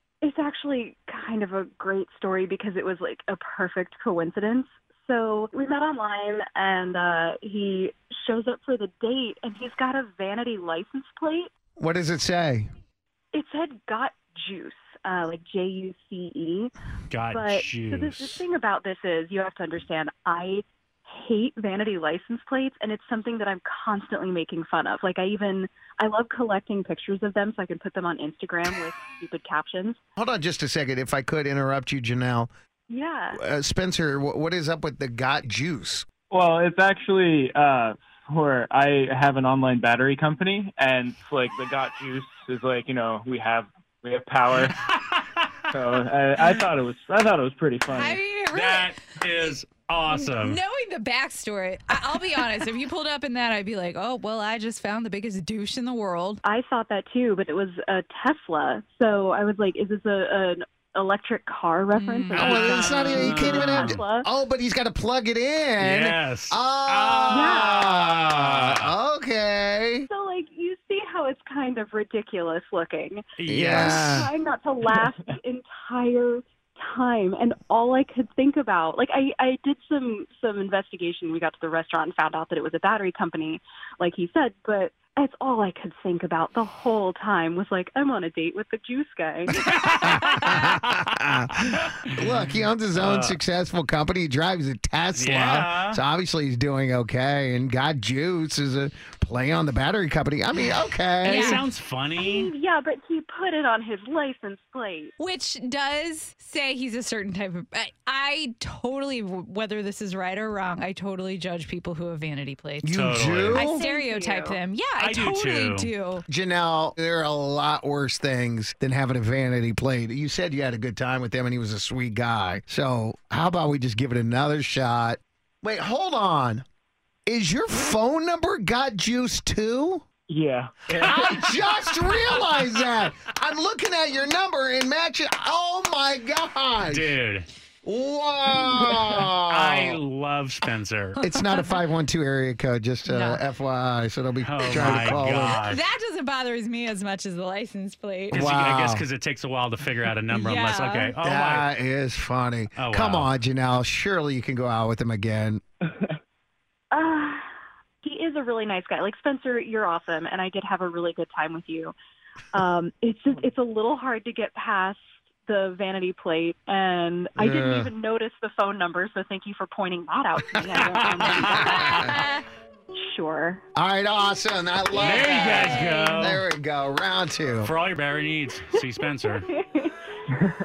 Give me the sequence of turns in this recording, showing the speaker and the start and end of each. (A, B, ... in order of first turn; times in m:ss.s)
0:00.2-0:11.5 A
0:11.8-0:12.7 B
0:13.3-0:16.7 A
0:17.1-0:18.4 C
0:17.3-0:30.0 A
0:30.2-0:32.5 B
0:32.9-0:33.4 A
0:33.3-0:36.1 B
0:36.3-0:44.8 D
0:44.7-0:45.2 C
0:45.7-0:48.2 D
0:46.4-0:46.7 E
0:47.8-0:49.0 E
0:48.5-0:50.6 C
0:50.1-0:56.4 E
0:56.4-1:04.3 A
1:01.9-1:02.5 E
1:02.4-1:10.1 B
1:02.4-1:04.0 C
1:05.8-1:08.9 C
1:07.3-1:07.8 A
1:10.1-1:29.6 A
1:13.4-1:14.3 C
1:13.5-1:14.3 B
1:29.7-1:30.6 C
1:29.8-1:41.6 B
1:32.2-1:33.4 C
1:35.2-1:36.0 C
1:41.2-1:42.5 C
1:41.2-1:41.6 E
1:42.2-1:45.2 A
1:45.2-1:52.9 E
1:52.8-1:53.8 B
1:52.9-1:53.7 C
1:53.5-1:56.2 E
1:53.7-1:54.6 A
1:55.0-1:55.9 C
1:56.3-2:06.6 B
2:07.3-2:10.0 B
2:10.3-2:10.9 D
2:10.9-2:17.2 B
2:11.0-2:12.4 C
2:16.9-2:17.5 C
2:17.8-2:20.0 B
2:19.4-2:21.2 C
2:21.2-2:25.6 B
2:23.1-2:23.4 E
2:24.4-2:25.8 C
2:24.7-2:28.4 E
2:28.3-2:31.7 C
2:28.3-2:29.0 B
2:30.3-2:31.2 E
2:31.2-2:35.6 B
2:32.8-2:33.3 C
2:36.9-2:37.4 A
2:38.0-2:41.9 A
2:42.5-2:52.1 A
2:47.4-2:47.9 B
2:51.2-2:51.7 C
2:51.2-2:52.1 B
2:51.9-2:52.4 E
2:53.0-2:53.6 A
2:53.8-2:57.7 B
2:54.9-2:56.2 E
2:55.0-2:56.4 C
2:57.6-2:59.5 C
2:59.0-3:00.0 A